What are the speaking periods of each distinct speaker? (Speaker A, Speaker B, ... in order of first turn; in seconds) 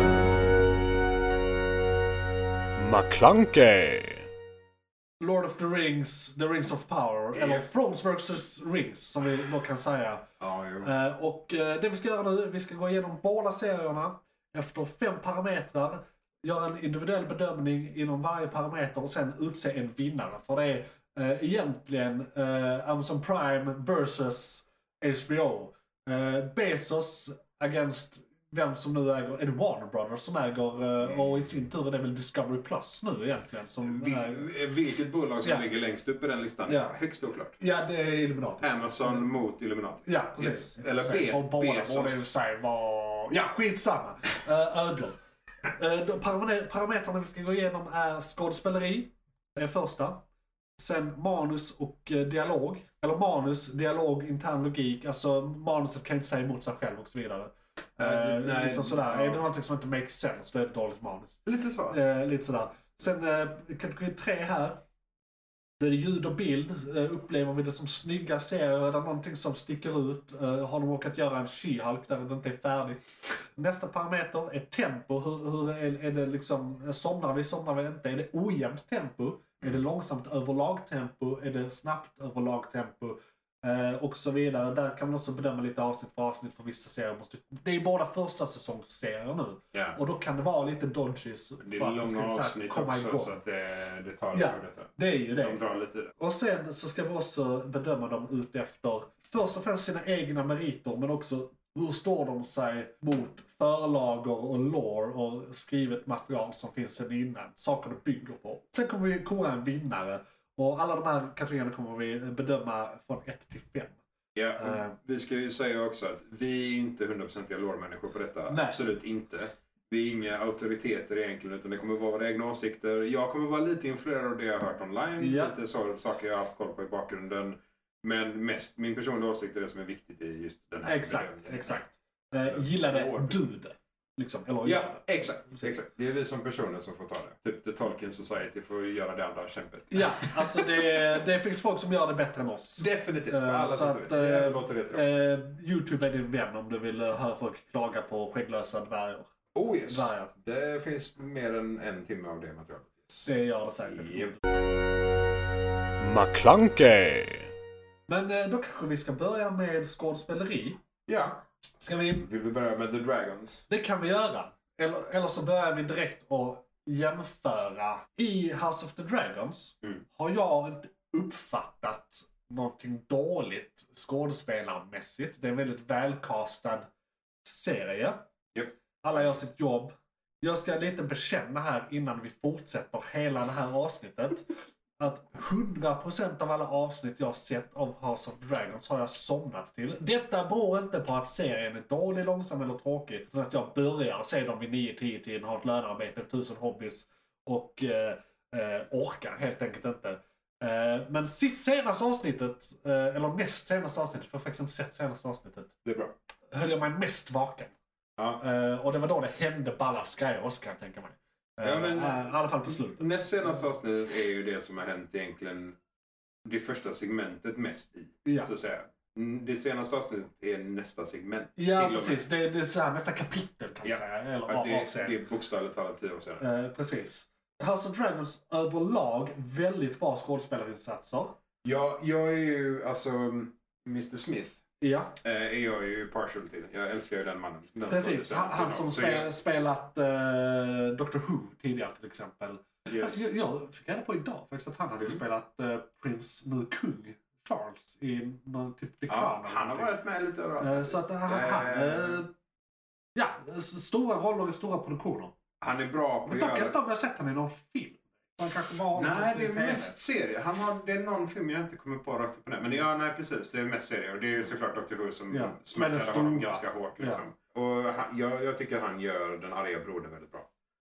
Speaker A: 2.8-4.3, 156.0-157.5
Speaker B: 5.2-10.3, 10.8-34.5, 36.7-37.0, 37.6-39.2, 40.0-50.2, 50.8-64.8, 65.8-93.3, 94.3-95.6, 96.2-114.0, 114.6-115.0, 118.5-118.8, 125.2-125.5, 130.8-135.7, 139.9-150.3, 153.2-154.4, 158.1-160.8, 161.8-162.3, 163.7-176.9, 177.4-178.2, 179.0-205.7, 206.5-207.7, 208.4-213.7, 218.2-218.5, 221.6-225.2, 226.4-231.3, 234.8-235.2, 237.9-250.0, 250.6-252.3, 253.2-255.3, 256.3-260.0, 265.3-267.2
Speaker C: 7.3-7.7, 10.4-10.9, 33.8-37.6, 38.6-42.3, 58.0-59.4, 61.5-62.0, 91.6-96.1, 114.3-131.8, 132.4-133.4, 134.7-141.2, 142.8-145.0, 149.5-153.3, 153.9-154.3, 161.1-161.4, 162.1-163.7, 205.8-206.1, 211.6-215.8, 216.4-222.2, 223.8-226.4, 231.6-234.6, 235.2-239.3, 242.9-243.2, 249.1-252.2, 255.6-256.8, 258.9-270.5